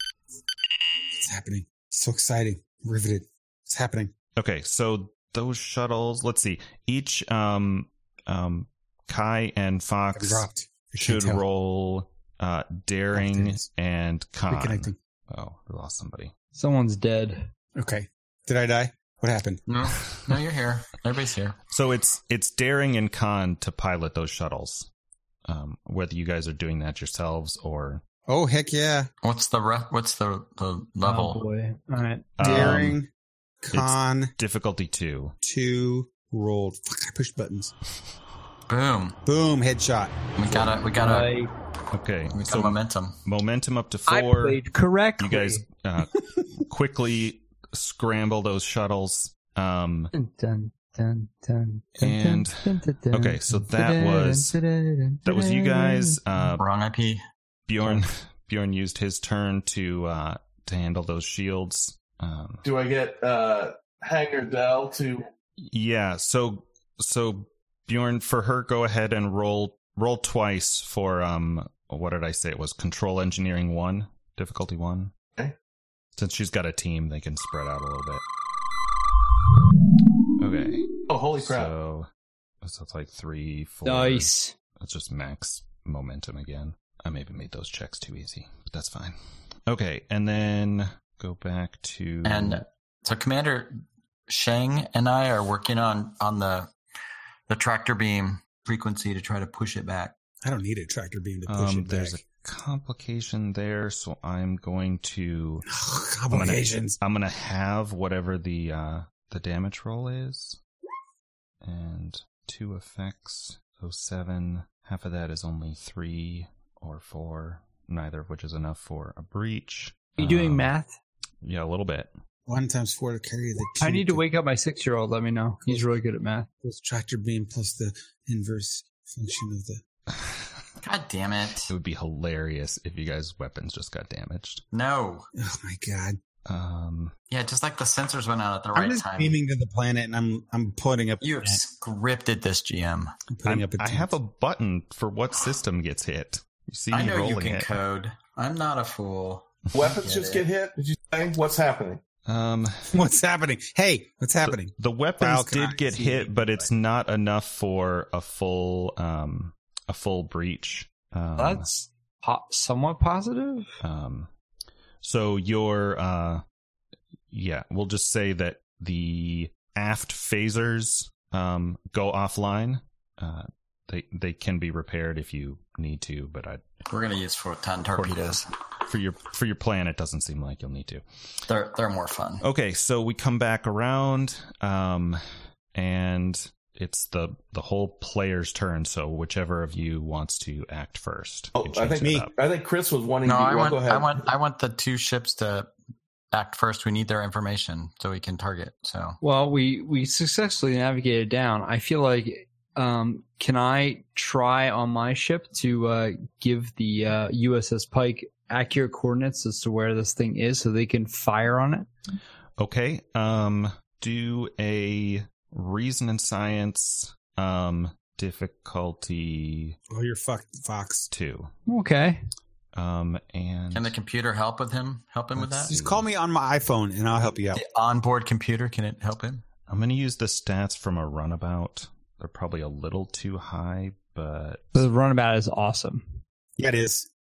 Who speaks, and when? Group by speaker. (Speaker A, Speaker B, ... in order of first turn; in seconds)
Speaker A: 1.1-4.1, 10.1-11.4, 13.1-13.7, 14.5-14.9, 17.8-19.6, 28.3-29.1, 32.4-33.1, 33.6-34.3, 35.4-37.7, 39.2-40.1, 100.4-102.2, 105.7-107.0, 122.5-124.2, 125.7-125.9, 126.6-129.8, 135.3-136.2, 138.7-141.6, 143.3-144.1, 152.9-156.3, 219.9-221.1, 225.5-227.6, 236.6-237.1
Speaker B: 4.4-10.4, 11.0-16.3, 21.7-24.9, 25.5-28.0, 32.4-33.0, 33.7-35.3, 41.9-44.6, 45.2-50.1, 52.0-54.6, 55.2-56.6, 57.7-62.6, 65.6-75.1, 76.2-78.2, 80.4-82.1, 82.6-89.2, 89.7-92.6, 101.5-105.7, 106.3-110.6, 111.6-120.7, 121.4-122.1, 130.1-130.4, 131.7-134.6, 136.4-137.1, 143.4-147.7, 152.2-152.9, 154.4-161.6, 163.8-164.3, 165.0-166.4, 167.3-176.6, 177.9-181.0, 182.4-185.2, 185.7-192.3, 212.6-219.8, 221.1-221.5, 222.7-223.9, 225.4-226.0, 229.7-234.7
Speaker C: 16.5-17.5, 31.0-32.3, 40.9-41.5, 44.1-45.6, 50.1-56.5, 83.8-84.5, 120.2-120.9, 123.8-126.5, 161.4-163.8, 199.2-211.9, 221.7-222.2, 234.7-236.2
Speaker D: 19.7-21.6, 29.2-31.4, 38.7-39.2, 40.4-41.3, 42.3-43.2, 56.6-57.2, 92.2-93.8, 94.3-96.7, 97.5-100.1, 130.8-131.7, 134.7-135.3, 137.3-139.3, 141.2-143.1, 146.9-150.4, 176.9-178.5, 181.5-182.4, 193.2-195.7, 196.3-199.2, 223.7-225.7, 227.5-229.4
Speaker E: 62.6-65.3, 81.1-81.7, 149.7-152.0, 191.6-194.2